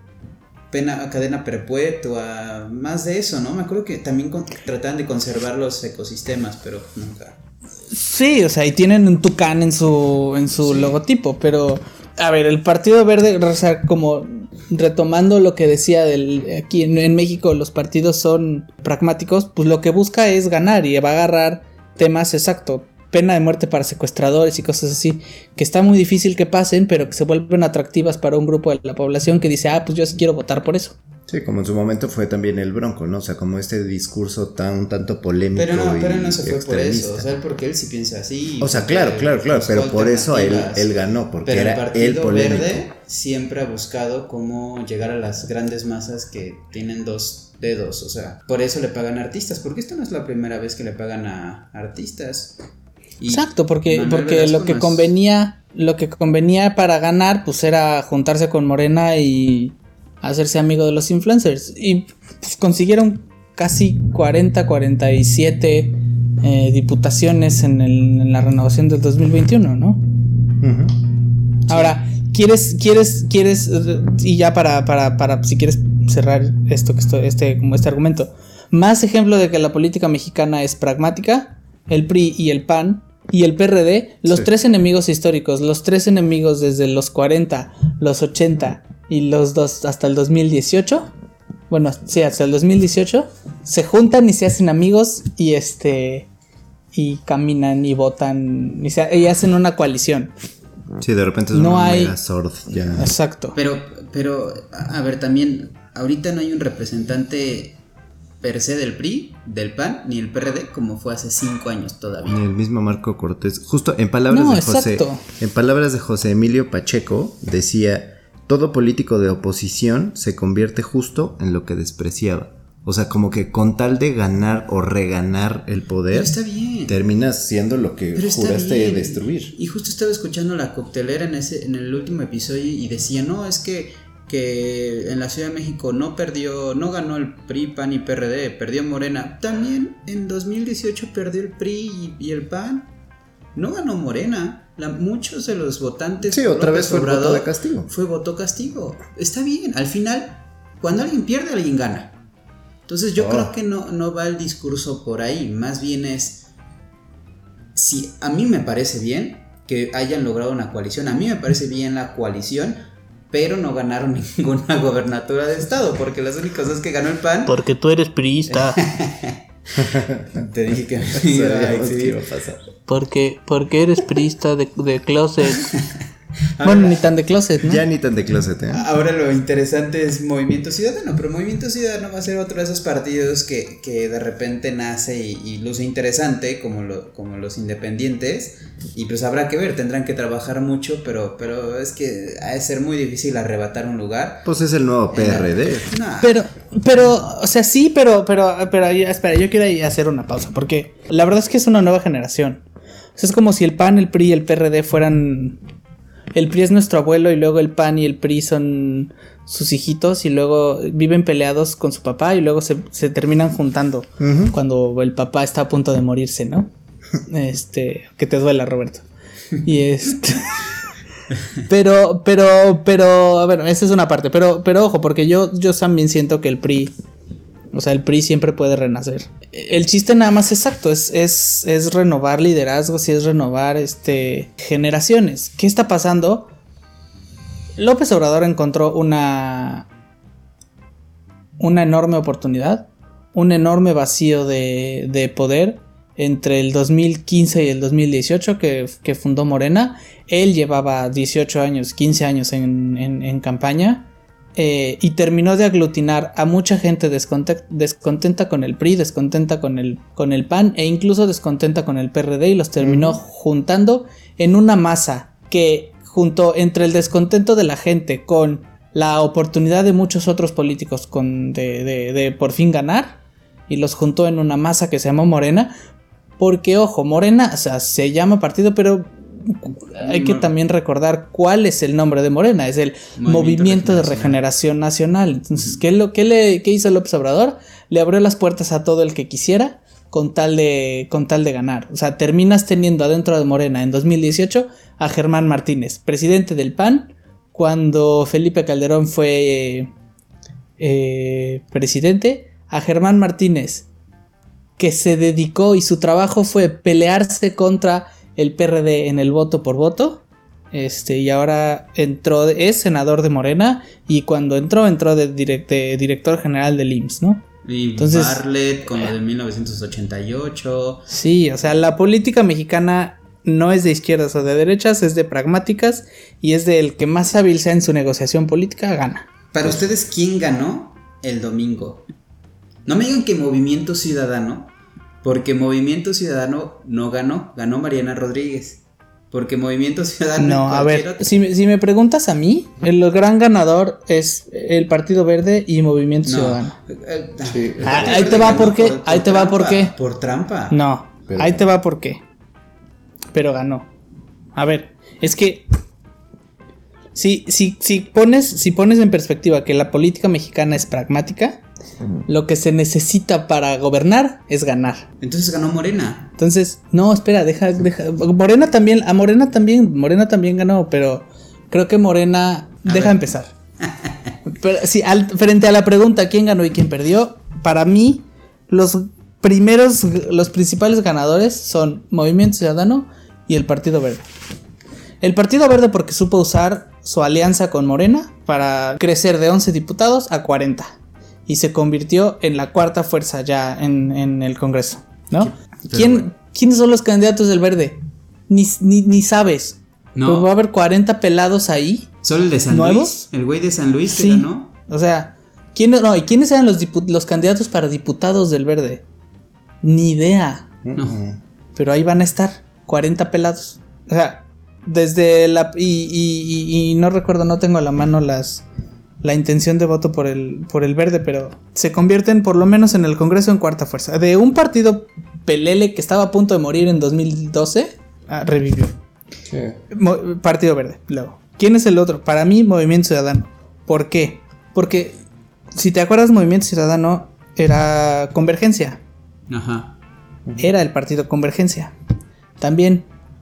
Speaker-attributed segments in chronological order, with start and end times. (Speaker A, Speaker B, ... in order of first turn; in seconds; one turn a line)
Speaker A: 0.7-7.4
Speaker B: 7.9-31.0
Speaker A: 10.6-11.0
Speaker C: 31.3-37.3
Speaker A: 35.6-40.9
Speaker C: 38.6-42.9
Speaker A: 41.5-52.6
Speaker A: 53.2-55.1
Speaker B: 53.3-70.0
Speaker C: 70.6-71.0
Speaker A: 71.7-72.0
Speaker B: 71.7-91.1
Speaker B: 91.7-96.3
Speaker B: 96.9-100.3
Speaker C: 101.0-103.1
Speaker B: 101.5-102.2
Speaker B: 103.0-103.6
Speaker A: 103.5-107.8
Speaker A: 108.4-112.4
Speaker C: 112.3-126.3
Speaker B: 114.3-115.2
Speaker A: 126.1-127.0
Speaker C: 126.9-129.6
Speaker A: 128.2-142.9
Speaker A: 143.6-152.2
Speaker C: 146.2-147.9
Speaker A: 152.9-156.5
Speaker C: 153.2-153.5
Speaker A: 157.8-167.6
Speaker B: 167.5-168.8
Speaker A: 168.5-172.2
Speaker C: 169.8-170.2
Speaker C: 171.2-172.6
Speaker B: 172.9-175.7
Speaker A: 175.6-176.0
Speaker A: 176.6-177.1
Speaker B: 176.6-177.8
Speaker C: 177.6-178.8
Speaker A: 178.7-194.5
Speaker C: 194.4-195.9
Speaker A: 195.1-196.4
Speaker B: 196.2-202.6
Speaker B: 203.2-205.6
Speaker B: 206.3-216.7
Speaker C: 214.2-214.6
Speaker B: 217.3-219.1
Speaker B: 219.6-220.5
Speaker B: 221.7-226.9
Speaker B: 227.7-236.5
Speaker B: 237.8-239.9
Speaker B: 241.6-273.2
Speaker C: 262.8-263.2
Speaker B: 273.7-275.7
Speaker B: 276.4-299.9
Speaker A: 280.0-280.5
Speaker A: 283.2-284.4
Speaker B: 300.8-303.9
Speaker B: 304.8-317.4
Speaker A: 317.6-321.1
Speaker B: 318.0-318.4
Speaker B: 321.1-329.3
Speaker A: 329.5-332.1
Speaker A: 332.9-341.3
Speaker B: 340.4-346.8
Speaker A: 346.2-350.8
Speaker C: 347.4-348.8
Speaker B: 347.9-349.9
Speaker B: 350.7-352.2
Speaker C: 351.3-351.7
Speaker B: 353.3-353.9
Speaker B: 354.6-355.6
Speaker B: 357.1-361.6
Speaker B: 362.3-365.1
Speaker A: 365.2-366.3
Speaker B: 366.4-373.5
Speaker A: 372.8-373.2
Speaker A: 373.8-374.3
Speaker B: 374.5-384.2
Speaker B: 385.2-390.9
Speaker B: 391.5-402.1
Speaker A: 395.4-396.3
Speaker A: 400.1-400.5
Speaker A: 402.2-404.7
Speaker B: 402.7-403.2
Speaker B: 404.1-409.0
Speaker B: 409.8-410.7
Speaker C: 410.8-411.4
Speaker A: 411.0-411.2
Speaker B: 411.8-418.6
Speaker B: 419.2-428.9
Speaker C: 429.5-429.8
Speaker B: 429.9-435.2
Speaker B: 435.7-439.0
Speaker A: 439.5-439.9
Speaker B: 440.6-441.9
Speaker B: 442.6-443.1